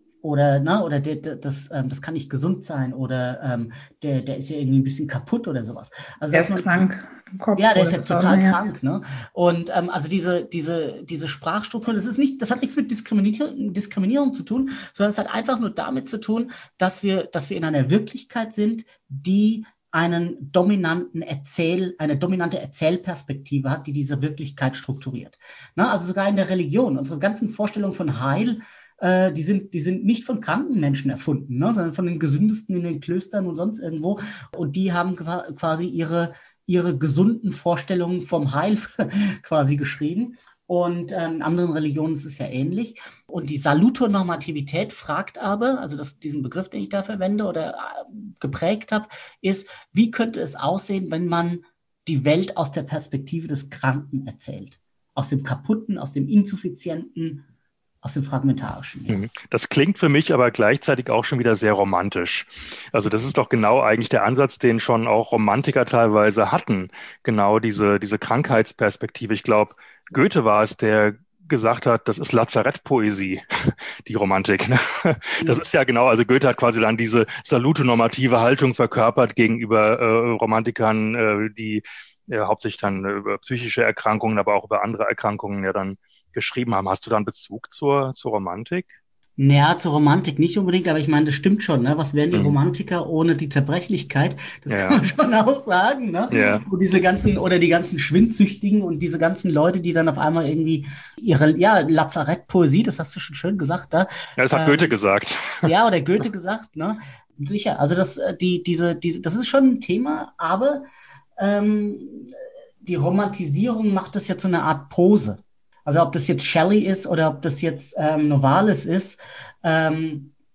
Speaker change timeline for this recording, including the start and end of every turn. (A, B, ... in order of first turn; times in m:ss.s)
0:00.2-0:06.8 A
0:06.3-0:08.6 B
0:07.6-0:57.4 A
0:58.0-0:59.2 A
0:59.1-1:28.9 C
1:29.4-1:44.9 A
1:32.3-1:32.6 C
1:34.7-1:35.0 C
1:36.3-1:36.6 C
1:44.4-1:45.7 C
1:45.6-1:50.8 A
1:51.4-2:00.3 A